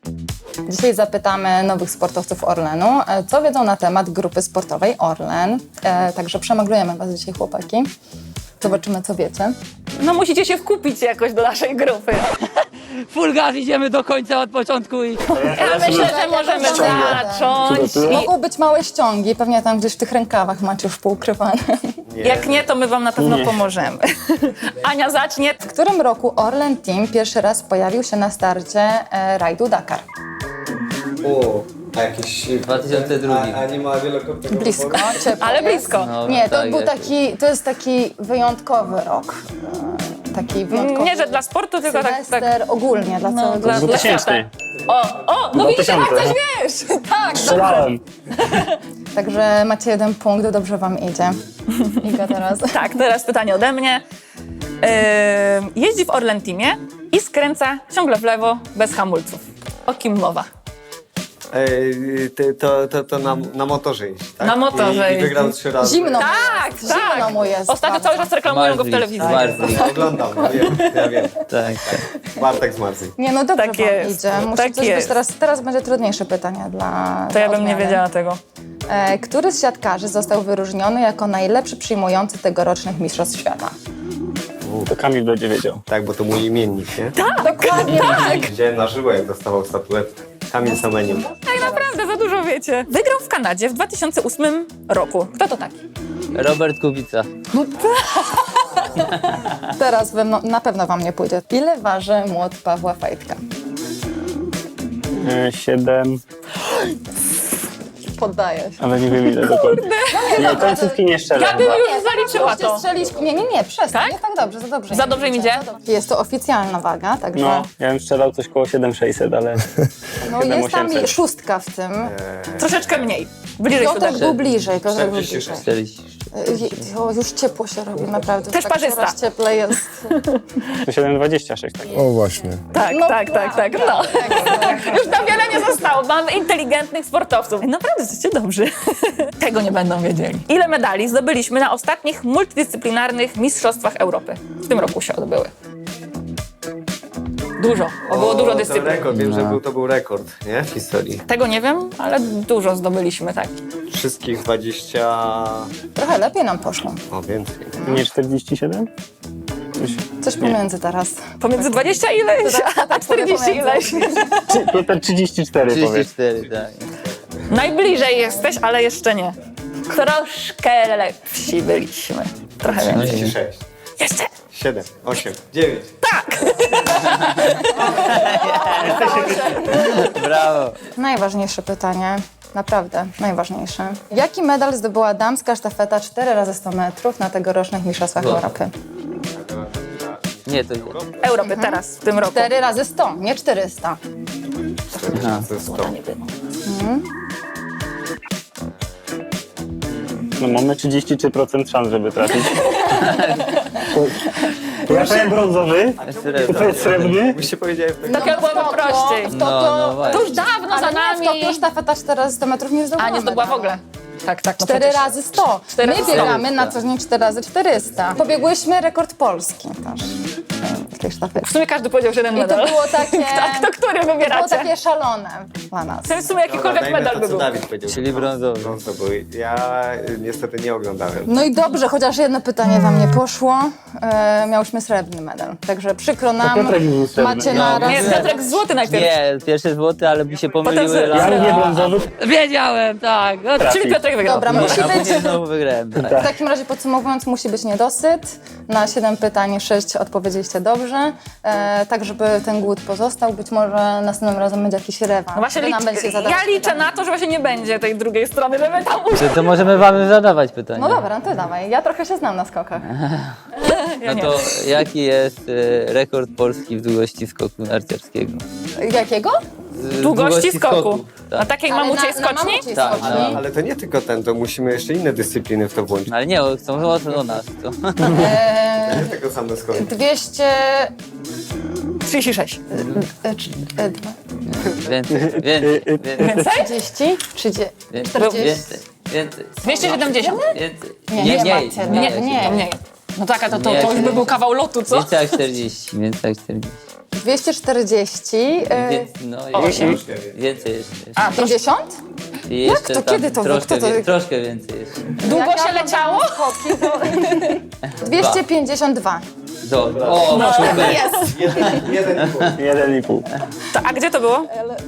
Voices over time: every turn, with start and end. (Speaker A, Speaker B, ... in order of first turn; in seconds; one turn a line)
Speaker A: 0.7-7.9
Speaker A: 8.6-9.6
Speaker B: 10.0-12.4
Speaker C: 13.0-15.4
Speaker D: 15.3-18.2
Speaker B: 15.4-18.3
Speaker A: 15.6-21.6
Speaker E: 22.1-22.7
Speaker B: 22.2-25.6
Speaker D: 23.2-23.6
Speaker A: 25.6-30.0
Speaker E: 31.2-35.4
Speaker C: 32.6-33.6
Speaker A: 34.5-44.1
Speaker B: 35.0-36.1
Speaker C: 35.9-37.1
Speaker B: 40.7-42.5
Speaker B: 43.1-48.8
Speaker D: 43.6-44.5
Speaker D: 45.5-46.4
Speaker D: 47.3-48.0
Speaker A: 49.1-51.4
Speaker B: 51.7-52.0
Speaker A: 52.0-52.8
Speaker B: 52.7-54.0
Speaker B: 54.8-60.5
Speaker E: 61.5-67.6
Speaker B: 64.4-65.5
Speaker A: 65.8-68.3
Speaker B: 66.1-71.1
Speaker C: 68.4-69.9
Speaker E: 69.2-71.4
Speaker A: 70.0-70.9
Speaker C: 71.4-72.0
Speaker E: 72.2-73.1
Speaker A: 73.2-78.0
Speaker B: 73.5-75.2
Speaker B: 77.3-78.4
Speaker A: 78.9-83.7
Speaker E: 84.6-84.9
Speaker D: 84.9-85.8
Speaker E: 85.9-87.2
Speaker B: 87.1-88.5
Speaker A: 87.5-88.4
Speaker E: 87.7-91.3
Speaker A: 90.6-91.9
Speaker B: 91.4-95.8
Speaker C: 96.3-97.3
Speaker A: 97.5-98.1
Speaker B: 98.1-98.8
Speaker A: 99.6-103.4
Speaker D: 105.2-106.2
Speaker A: 108.1-108.8
Speaker D: 108.8-111.8
Speaker B: 109.4-110.5
Speaker A: 110.1-117.7
Speaker B: 111.3-112.8
Speaker B: 114.9-115.6
Speaker D: 117.3-119.7
Speaker A: 120.2-122.1
Speaker D: 120.3-121.2
Speaker E: 122.0-122.8
Speaker B: 122.6-124.3
Speaker A: 123.7-125.7
Speaker C: 124.1-124.4
Speaker E: 124.8-125.7
Speaker C: 125.5-126.2
Speaker A: 126.3-130.1
Speaker B: 128.5-129.2
Speaker B: 129.7-130.8
Speaker D: 130.8-132.2
Speaker A: 132.1-135.7
Speaker B: 132.7-145.5
Speaker B: 147.6-149.1
Speaker E: 148.0-151.2
Speaker C: 149.1-149.6
Speaker B: 151.3-153.6
Speaker E: 153.9-155.7
Speaker A: 155.9-157.0
Speaker E: 157.1-157.8
Speaker A: 157.8-158.1
Speaker D: 157.8-158.9
Speaker D: 159.8-160.6
Speaker A: 160.2-161.8
Speaker B: 161.4-164.5
Speaker A: 162.4-164.2
Speaker D: 164.5-166.1
Speaker C: 165.6-166.9
Speaker E: 166.3-167.5
Speaker B: 167.5-169.3
Speaker B: 169.9-173.2
Speaker C: 172.7-173.3
Speaker E: 172.7-173.6
Speaker B: 174.0-174.3
Speaker E: 174.5-175.9
Speaker B: 176.0-178.0
Speaker A: 177.9-180.1
Speaker C: 177.9-179.0
Speaker E: 178.1-179.4
Speaker B: 178.6-179.3
Speaker C: 179.7-180.8
Speaker A: 180.9-188.7
Speaker C: 188.2-188.4
Speaker E: 189.3-191.3
Speaker C: 190.5-191.0
Speaker B: 191.2-192.5
Speaker A: 191.4-194.0
Speaker E: 194.9-196.0
Speaker C: 195.1-195.5
Speaker B: 195.7-196.2
Speaker A: 196.7-197.0
Speaker D: 200.4-202.8
Speaker B: 202.5-203.8
Speaker C: 202.9-203.5
Speaker D: 203.8-204.3
Speaker D: 204.8-207.4
Speaker A: 204.9-205.2
Speaker E: 206.0-208.9
Speaker C: 206.0-207.1
Speaker A: 208.1-213.8
Speaker B: 208.1-209.3
Speaker C: 209.3-210.3
Speaker B: 210.1-211.6
Speaker B: 213.0-215.2
Speaker A: 214.6-221.5
Speaker B: 215.7-216.4
Speaker C: 215.9-216.7
Speaker B: 221.4-224.7
Speaker A: 222.3-226.3
Speaker B: 226.1-227.5
Speaker E: 226.4-231.3
Speaker C: 227.9-228.8
Speaker A: 231.2-238.5
Speaker D: 236.4-237.8
Speaker C: 237.5-243.7
Speaker B: 237.8-239.1
Speaker B: 240.6-241.8
Speaker D: 241.1-242.1
Speaker B: 243.5-245.4
Speaker D: 243.6-244.0
Speaker A: 244.2-245.3
Speaker C: 244.4-246.3
Speaker D: 245.9-246.3
Speaker A: 246.1-256.8
Speaker B: 255.3-259.6
Speaker C: 259.1-261.0
Speaker A: 260.7-262.9
Speaker C: 262.9-263.5
Speaker B: 263.6-264.7
Speaker C: 264.0-268.4
Speaker A: 268.8-269.4
Speaker C: 269.7-271.6
Speaker B: 270.0-272.6
Speaker A: 271.7-273.4
Speaker C: 272.7-273.4
Speaker E: 272.9-276.1
Speaker C: 276.1-278.3
Speaker A: 278.0-279.1
Speaker E: 278.8-279.9
Speaker A: 279.7-280.9
Speaker B: 282.1-282.6
Speaker A: 282.7-284.2
Speaker C: 282.8-283.0
Speaker C: 284.6-286.4
Speaker D: 285.1-286.4
Speaker B: 286.2-286.7
Speaker A: 286.3-288.7
Speaker C: 287.9-292.7
Speaker B: 288.2-288.5
Speaker B: 289.6-290.6
Speaker A: 289.7-290.5
Speaker A: 291.1-292.7
Speaker B: 291.2-295.4
Speaker C: 293.5-296.8
Speaker A: 297.1-299.1
Speaker C: 298.7-301.3
Speaker B: 299.5-299.9
Speaker D: 299.6-300.0
Speaker E: 299.7-300.4
Speaker B: 301.1-301.6
Speaker A: 301.2-302.0
Speaker C: 302.5-305.2
Speaker A: 302.6-304.1
Speaker B: 305.2-307.6
Speaker A: 305.2-309.2
Speaker C: 308.1-308.4
Speaker C: 309.6-312.4
Speaker E: 309.9-312.6
Speaker B: 310.3-311.8
Speaker A: 310.6-311.8
Speaker D: 312.5-313.3
Speaker B: 313.7-314.5